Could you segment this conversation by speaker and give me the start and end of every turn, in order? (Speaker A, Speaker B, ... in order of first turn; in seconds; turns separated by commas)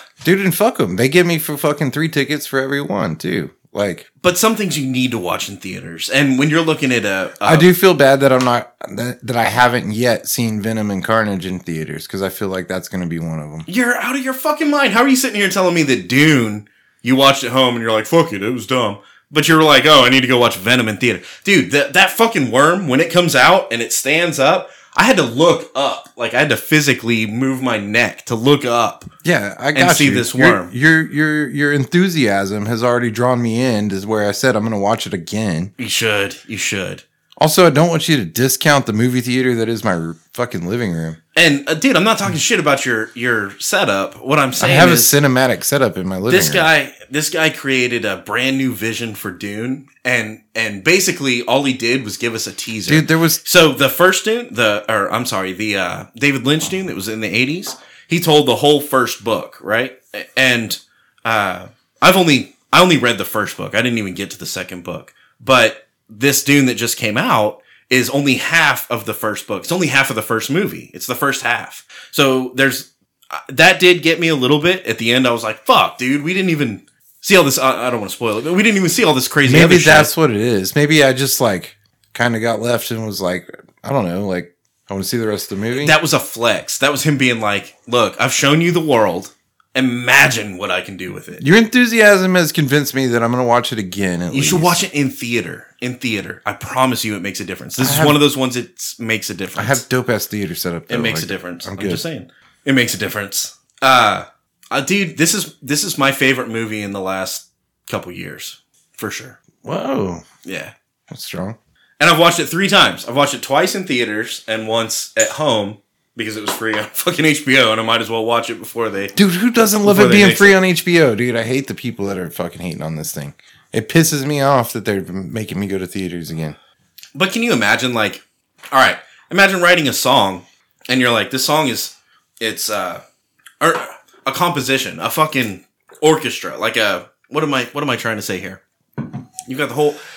Speaker A: 0.2-4.1, Speaker B: 4.2-7.7, Speaker A: 7.4-13.7, Speaker B: 13.7-29.1, Speaker A: 29.2-35.7, Speaker B: 29.8-30.7, Speaker B: 35.8-37.0, Speaker A: 37.4-41.2, Speaker B: 41.4-45.1, Speaker A: 44.6-46.7, Speaker B: 46.3-80.1, Speaker A: 52.9-53.4, Speaker A: 79.5-86.0, Speaker B: 85.8-91.4, Speaker A: 91.4-94.8, Speaker B: 94.3-99.8, Speaker A: 97.8-98.2, Speaker A: 99.6-102.0, Speaker B: 100.9-109.4, Speaker A: 109.6-110.2, Speaker B: 110.4-110.7, Speaker A: 111.1-111.6, Speaker B: 112.0-119.2, Speaker A: 119.2-126.6, Speaker B: 119.8-120.6, Speaker B: 127.2-133.0, Speaker B: 133.6-138.6, Speaker B: 139.5-140.0